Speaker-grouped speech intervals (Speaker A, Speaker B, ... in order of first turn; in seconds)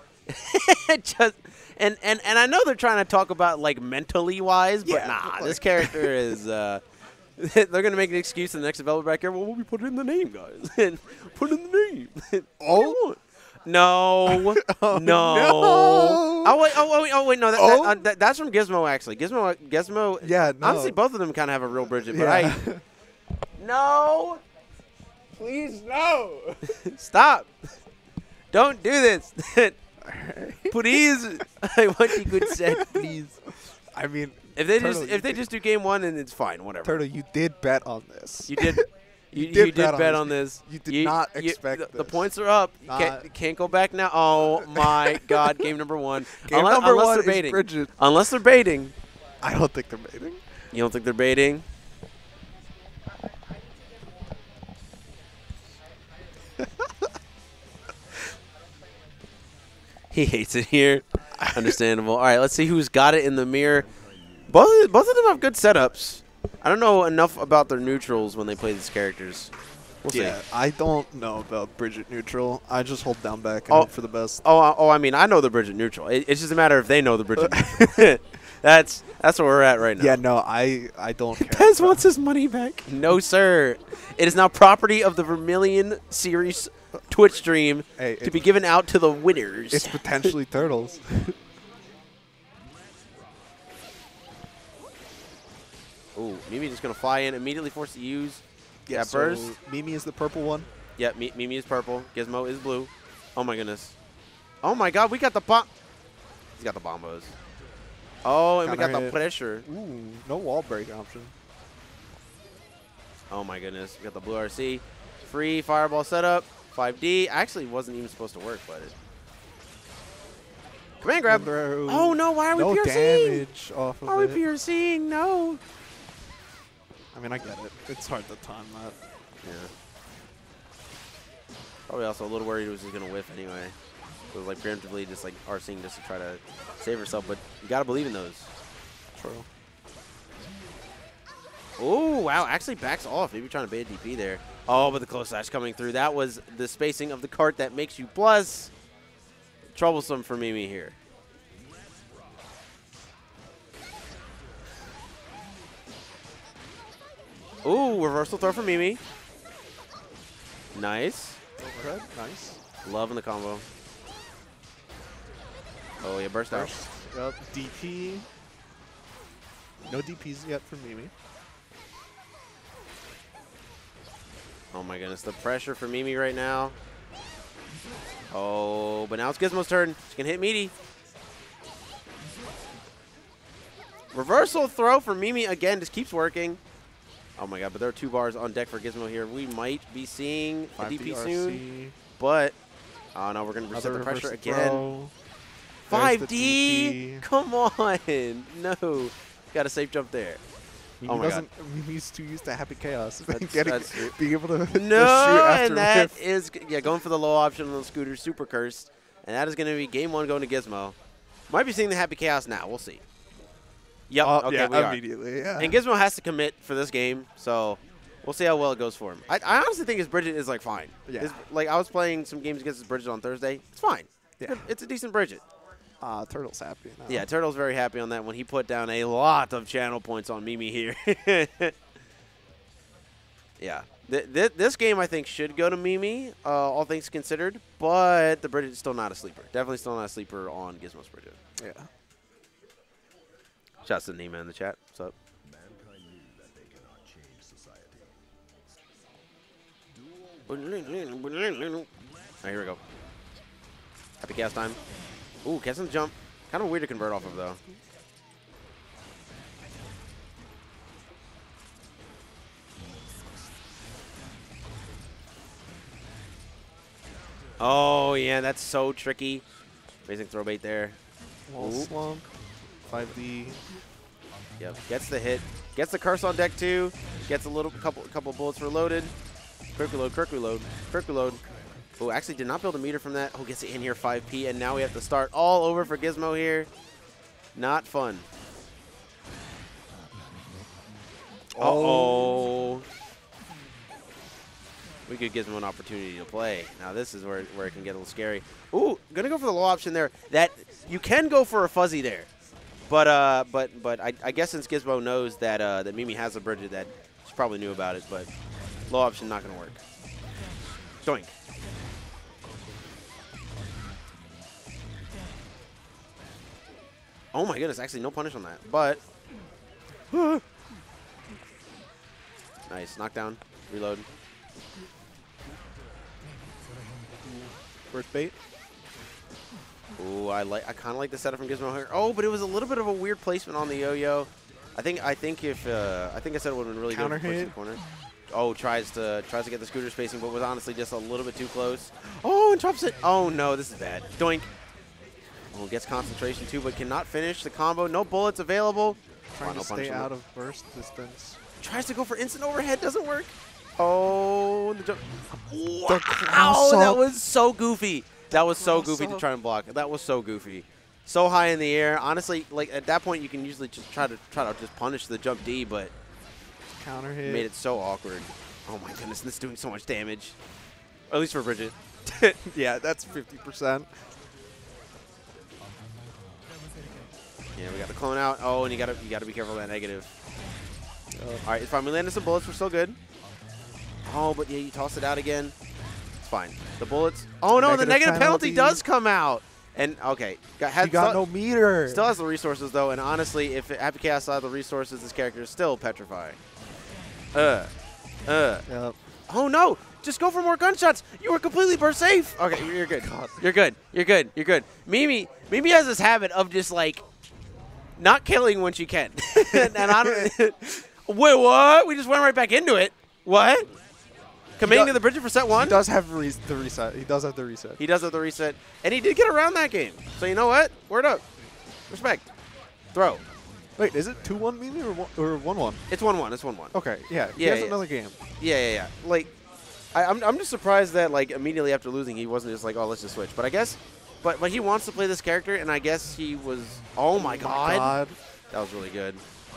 Speaker A: 0.3-6.8, 7.4-22.6, 23.6-24.4, 26.7-27.5, 28.5-29.8, 30.7-33.3, 34.5-37.0, 38.5-48.9, 50.7-51.7, 60.1-63.9, 64.5-69.5, 70.0-70.4, 74.4-80.2, 81.3-90.3, 96.1-99.5, 101.0-103.9, 104.6-105.7, 106.6-107.3, 108.2-109.6, 113.3-118.9, 121.0-123.5, 124.0-125.6, 129.4-129.7, 131.9-133.7, 134.3-138.5, 141.8-148.7, 149.7-151.0, 157.6-159.0, 160.7-161.4, 162.8-163.7, 166.0-166.7, 174.7-176.8, 178.3-180.7, 184.1-186.6, 187.4-191.6, 192.2-192.6, 193.2-194.8, 195.9-200.4, 201.1-201.5, 203.3-204.2, 204.7-211.0, 211.5-213.0, 214.1-215.0, 215.6-225.4, 227.1-231.7, 233.6-241.4, 243.8-245.2, 250.5-251.8, 252.4-252.8, 254.2-254.8, 255.4-257.6, 267.6-269.4, 270.1-271.0, 271.6-271.9, 274.6-279.1, 279.8-281.4, 282.0-286.7, 287.6-288.2, 291.6-292.9, 295.1-302.3, 302.9-308.3, 308.9-309.8, 311.0-311.3, 317.3-319.0, 320.1-320.4, 322.7-324.1, 330.0-344.5, 345.5-350.1, 351.6-365.9, 367.2-370.4, 371.1-372.4, 377.6-380.1, 381.4-383.0, 384.0-385.5, 386.2-391.2, 391.9-396.4, 397.3-397.7, 398.3-398.6, 399.3-407.0, 408.0-413.7, 414.6-415.8, 417.8-421.2, 421.9-422.3, 422.9-423.2, 425.9-426.7, 427.4-427.8, 428.4-429.3, 429.9-437.9, 438.5-439.2
Speaker B: 4.8-6.2, 12.6-13.0, 14.3-16.8, 17.5-18.0, 20.2-21.0, 22.1-22.8, 25.4-26.6, 30.0-30.8, 32.4-33.0, 33.9-35.4, 36.8-42.3, 42.9-43.2, 44.7-45.7, 46.3-47.9, 49.4-50.4, 70.1-74.4, 77.4-78.2, 80.0-82.8, 88.0-88.4, 89.7-91.3, 98.8-100.7, 108.6-111.3, 121.3-124.4, 127.1-129.0, 139.2-139.5, 161.6-162.6, 166.5-168.3, 169.9-171.1, 190.8-191.9, 193.7-195.1, 195.9-197.3, 201.0-206.1, 214.2-215.8, 221.1-221.4, 224.4-224.7, 226.0-227.3, 241.6-241.9, 271.5-273.6, 291.5-292.2, 327.2-328.3, 336.9-337.5, 349.3-351.4, 355.9-357.0, 358.6-359.2, 366.8-367.5, 372.4-373.9, 381.1-381.4, 387.5-388.8, 390.8-392.1, 398.7-399.0, 402.5-403.4, 409.4-410.3, 414.6-414.9, 415.5-417.8, 423.8-425.8, 426.7-428.2, 437.2-438.1